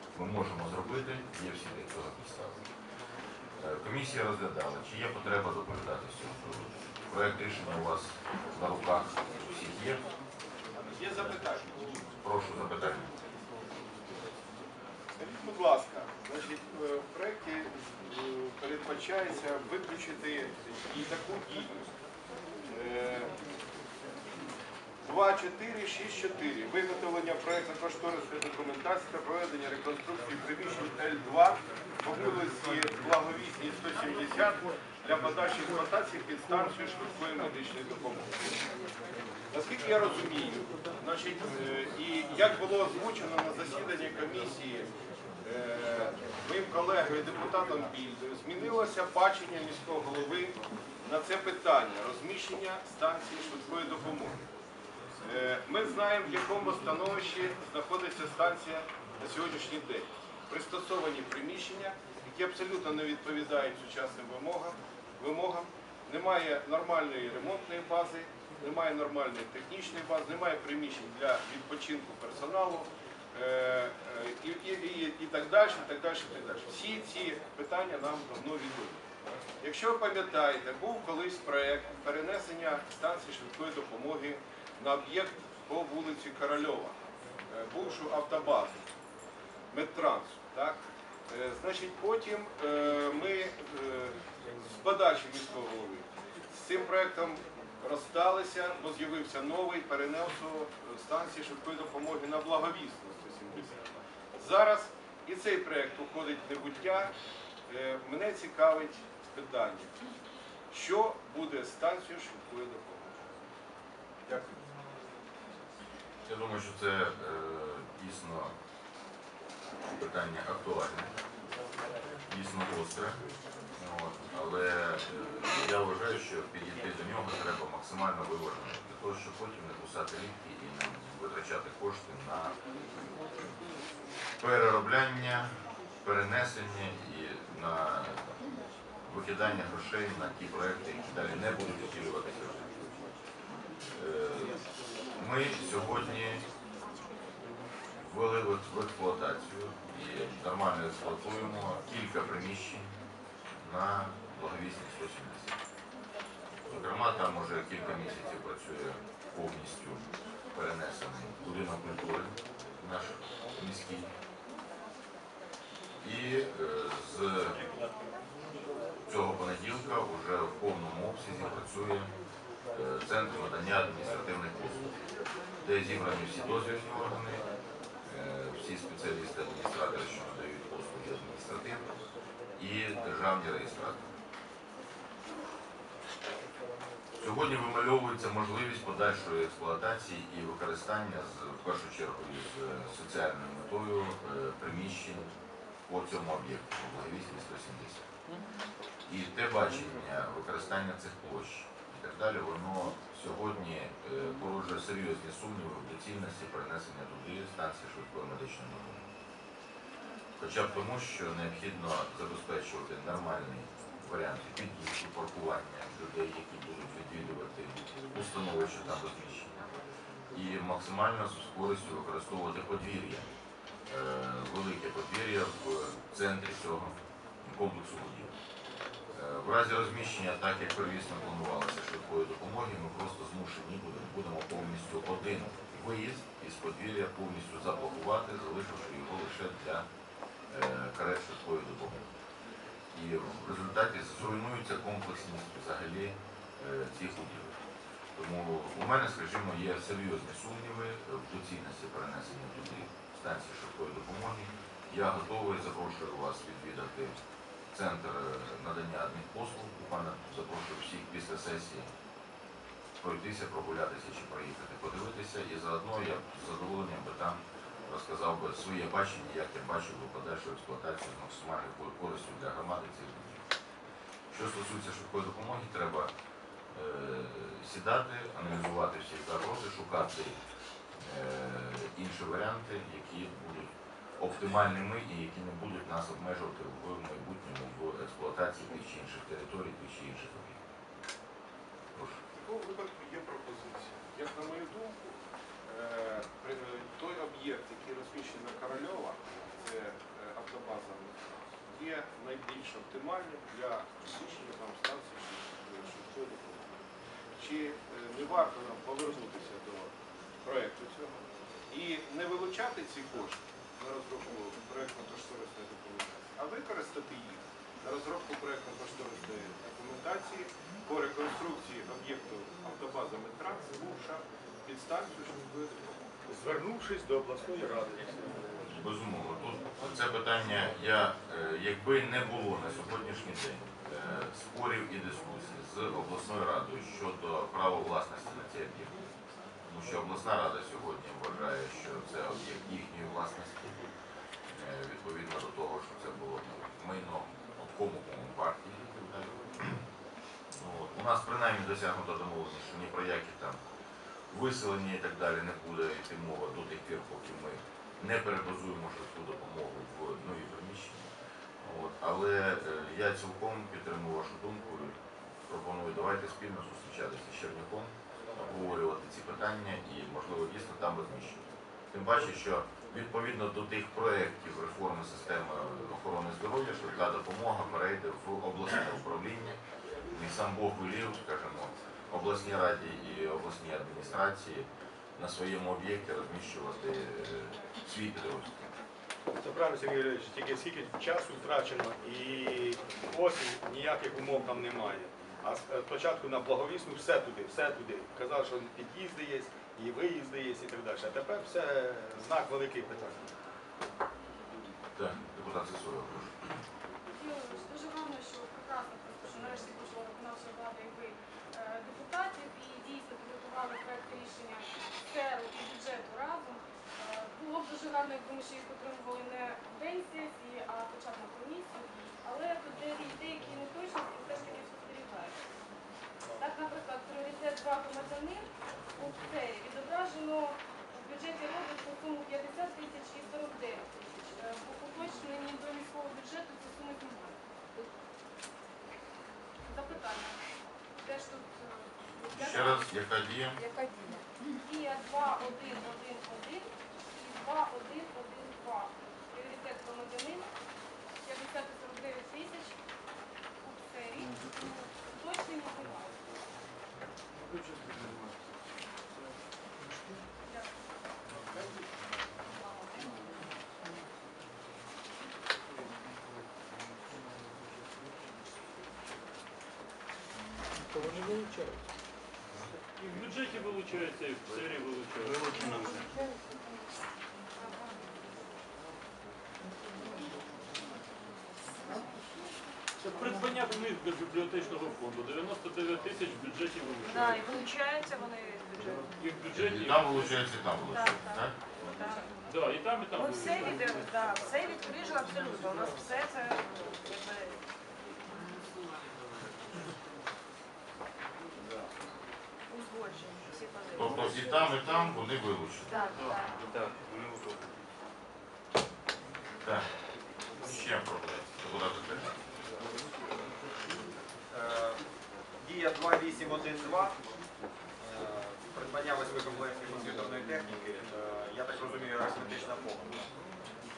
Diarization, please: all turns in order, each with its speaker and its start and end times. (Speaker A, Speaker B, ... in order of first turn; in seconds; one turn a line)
Speaker A: 0.1-2.6
Speaker A: 3.6-10.0
Speaker B: 10.8-11.7
Speaker A: 12.1-13.1
Speaker B: 15.2-21.9
Speaker B: 22.7-23.3
Speaker B: 25.0-38.6
Speaker B: 39.5-44.9
Speaker B: 45.4-54.5
Speaker B: 55.2-79.0
Speaker B: 79.6-87.0
Speaker B: 87.5-88.8
Speaker B: 89.7-94.2
Speaker B: 94.7-103.8
Speaker B: 104.3-107.1
Speaker B: 107.7-109.9
Speaker B: 110.7-113.3
Speaker B: 114.2-114.7
Speaker A: 116.2-118.5
Speaker A: 119.9-121.1
Speaker A: 122.3-123.2
Speaker A: 123.8-132.5
Speaker A: 134.4-135.5
Speaker A: 136.0-138.3
Speaker A: 139.1-142.8
Speaker A: 143.9-144.6
Speaker A: 145.2-146.4
Speaker A: 147.9-152.9
Speaker A: 153.6-155.5
Speaker A: 156.6-160.0
Speaker A: 160.5-164.1
Speaker A: 166.0-167.6
Speaker A: 169.1-172.1
Speaker A: 172.7-174.9
Speaker A: 175.6-177.4
Speaker A: 178.0-181.8
Speaker A: 182.6-184.0
Speaker A: 187.1-195.3
Speaker A: 195.9-198.1
Speaker A: 199.0-209.1
Speaker A: 210.4-219.6
Speaker A: 220.3-223.2
Speaker A: 223.9-228.3
Speaker A: 229.1-239.8
Speaker A: 240.5-242.0
Speaker A: 242.9-247.5
Speaker A: 248.2-257.1
Speaker A: 257.7-261.9
Speaker A: 263.0-273.4
Speaker A: 274.3-276.1
Speaker A: 276.7-280.4
Speaker A: 280.9-290.6
Speaker A: 291.9-292.2
Speaker B: 292.3-306.8
Speaker B: 307.3-326.0
Speaker C: 326.3-328.5
Speaker A: 328.7-338.9
Speaker A: 339.6-343.8
Speaker A: 344.5-349.8
Speaker A: 350.6-353.6
Speaker A: 354.3-361.1
Speaker A: 361.6-364.9
Speaker A: 365.5-371.4
Speaker A: 371.9-379.6
Speaker A: 380.1-388.6
Speaker C: 389.4-403.3
Speaker A: 404.9-406.5
Speaker D: 407.1-425.4
Speaker D: 426.4-437.4
Speaker D: 439.6-440.4
Speaker D: 441.0-442.9
Speaker A: 442.3-443.6
Speaker D: 444.6-450.5
Speaker D: 451.2-452.8
Speaker D: 453.6-456.2
Speaker D: 462.6-463.1
Speaker C: 471.1-471.6
Speaker E: 472.9-476.1
Speaker E: 483.0-487.4
Speaker F: 487.0-489.1
Speaker E: 489.2-490.6
Speaker A: 489.5-491.5
Speaker F: 490.9-491.4
Speaker F: 491.9-492.3
Speaker E: 492.4-494.1
Speaker F: 493.2-497.6
Speaker F: 502.7-504.6
Speaker A: 503.9-505.9
Speaker F: 505.9-506.5
Speaker E: 507.0-507.3
Speaker A: 510.6-512.3
Speaker G: 514.5-515.0
Speaker G: 515.6-517.1
Speaker G: 518.0-523.2